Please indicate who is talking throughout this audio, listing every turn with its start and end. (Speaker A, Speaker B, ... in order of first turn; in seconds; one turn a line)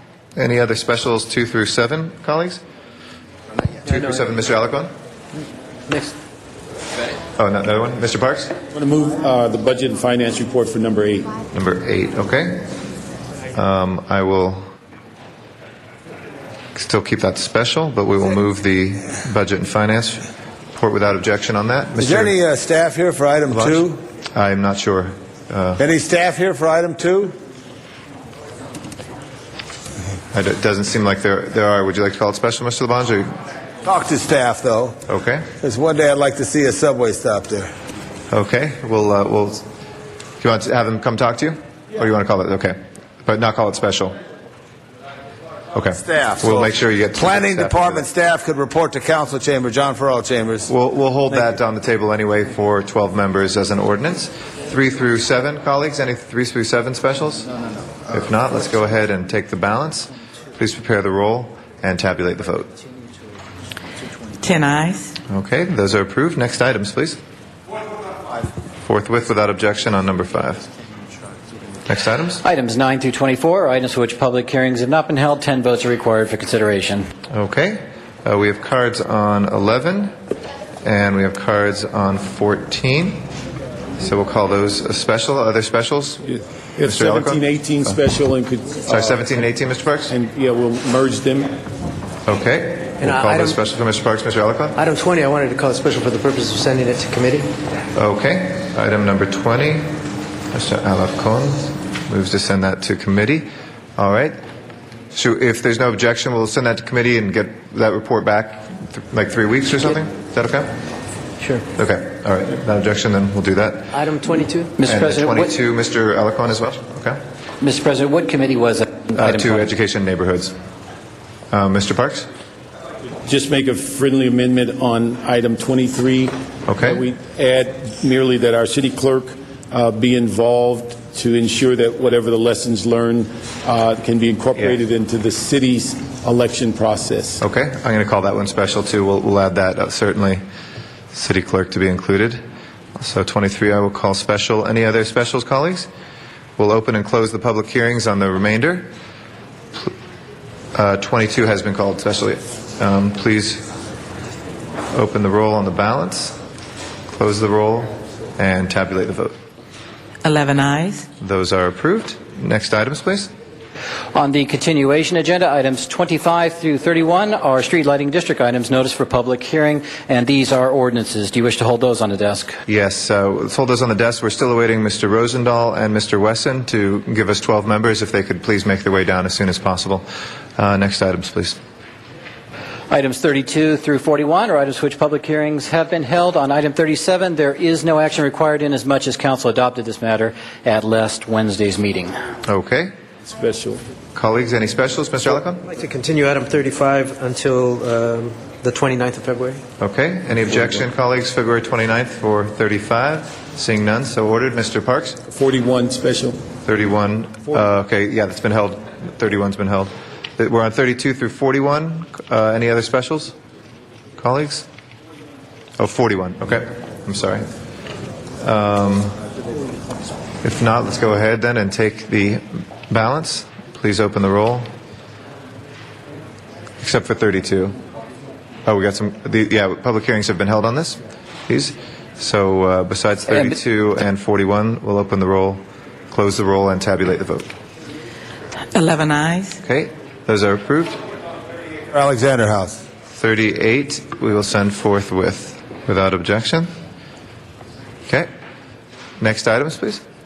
Speaker A: 0.3-2.6
Speaker A: 3.8-4.9
Speaker B: 5.9-6.1
Speaker A: 7.3-8.5
Speaker C: 8.7-11.4
Speaker A: 11.5-12.7
Speaker A: 13.5-14.7
Speaker A: 16.7-22.3
Speaker D: 22.0-24.0
Speaker A: 23.5-25.8
Speaker D: 25.8-27.3
Speaker A: 30.3-33.3
Speaker D: 33.8-35.0
Speaker A: 35.1-35.5
Speaker D: 35.6-37.7
Speaker A: 38.3-39.6
Speaker A: 40.4-44.1
Speaker A: 45.7-48.1
Speaker D: 46.0-50.7
Speaker A: 50.7-57.5
Speaker A: 58.1-62.7
Speaker E: 64.4-65.1
Speaker A: 65.3-67.2
Speaker A: 68.8-70.7
Speaker A: 71.9-72.4
Speaker F: 72.4-77.1
Speaker A: 77.3-80.1
Speaker A: 80.8-83.3
Speaker A: 84.0-86.2
Speaker C: 86.2-89.2
Speaker A: 86.8-88.0
Speaker A: 88.9-90.1
Speaker C: 90.1-91.5
Speaker A: 92.2-94.8
Speaker B: 93.0-93.5
Speaker B: 94.8-97.5
Speaker A: 97.9-100.0
Speaker A: 100.5-104.4
Speaker A: 105.1-110.7
Speaker A: 111.7-113.9
Speaker B: 113.9-114.7
Speaker F: 114.8-115.5
Speaker A: 114.8-117.2
Speaker F: 117.6-119.7
Speaker A: 119.1-120.5
Speaker A: 121.5-122.3
Speaker C: 123.2-137.4
Speaker A: 126.7-127.0
Speaker A: 137.4-140.4
Speaker A: 141.1-142.4
Speaker A: 142.9-145.9
Speaker A: 146.6-148.9
Speaker A: 150.7-153.7
Speaker A: 154.9-156.4
Speaker A: 157.1-159.3
Speaker E: 160.2-161.1
Speaker A: 161.2-163.3
Speaker F: 164.1-172.6
Speaker A: 172.7-180.0
Speaker A: 180.6-181.6
Speaker F: 182.9-192.1
Speaker A: 192.4-192.9
Speaker C: 193.2-193.8
Speaker A: 194.1-195.7
Speaker B: 195.7-199.6
Speaker A: 199.8-205.2
Speaker C: 205.2-206.4
Speaker A: 206.6-213.3
Speaker A: 214.2-214.7
Speaker A: 215.8-217.5
Speaker A: 218.4-219.2
Speaker A: 220.4-224.7
Speaker A: 226.8-227.8
Speaker A: 228.7-237.5
Speaker E: 238.7-239.6
Speaker A: 239.6-241.0
Speaker D: 241.9-242.8
Speaker A: 243.1-246.7
Speaker A: 249.2-250.0